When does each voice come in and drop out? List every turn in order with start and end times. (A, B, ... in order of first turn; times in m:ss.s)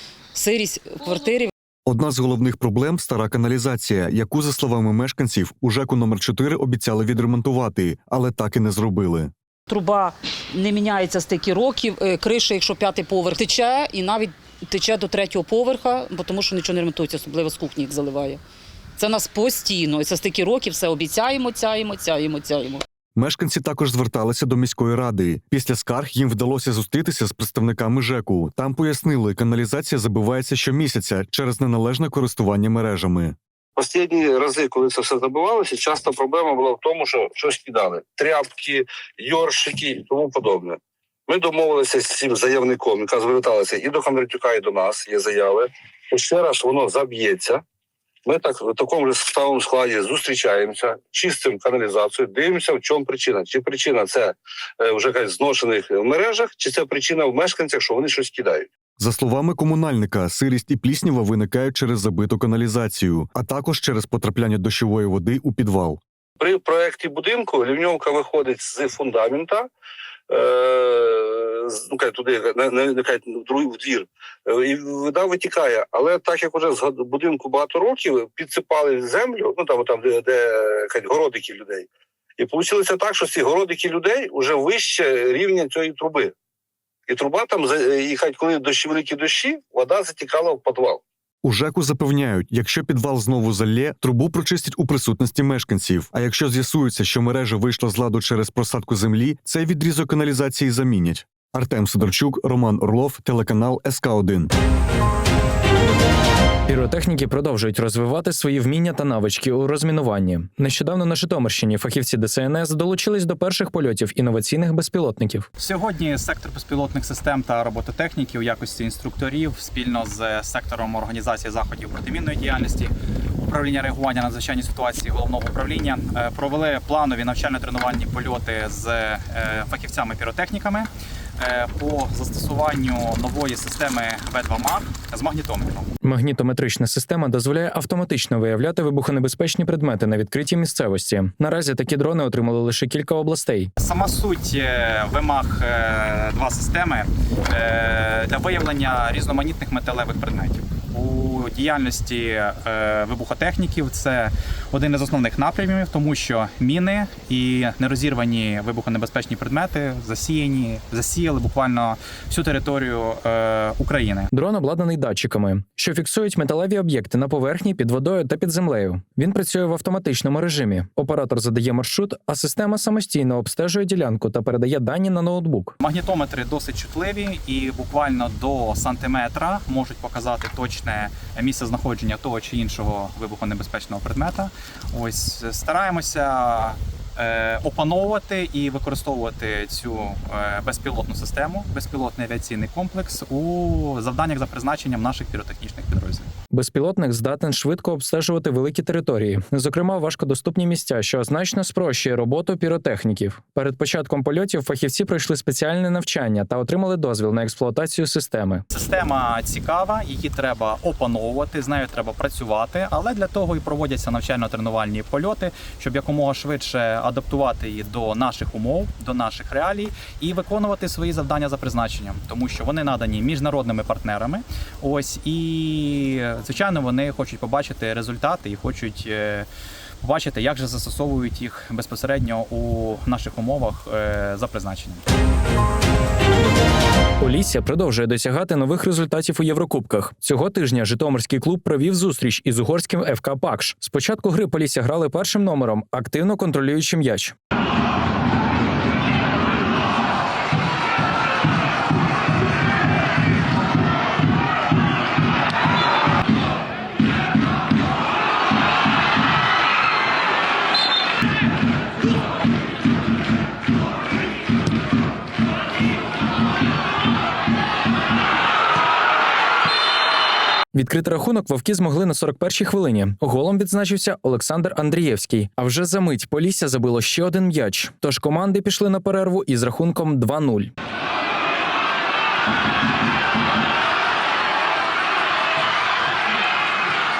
0:00.3-0:01.5 A
0:01.8-0:09.3 B
0:09.7-0:18.4 A
0:19.0-0:22.8 A
0:23.2-0:33.4 B
0:33.8-0:47.6 C
0:48.2-0:58.7 C
0:59.0-1:06.0 B
1:06.4-1:09.7 C
1:10.3-1:21.9 C
1:22.4-1:26.3 C
1:27.1-1:31.0 C
1:31.4-1:44.5 B
1:46.7-1:55.5 D
1:55.6-2:02.9 E
2:03.4-2:15.9 E
2:16.0-2:23.7 D
2:23.8-2:44.3 E
2:44.3-2:55.7 D
2:55.8-3:16.3 E
3:16.5-3:28.6 D
3:28.7-3:49.5 E
3:50.0-3:55.0 E
3:57.2-4:07.3 D
4:30.7-4:40.7 D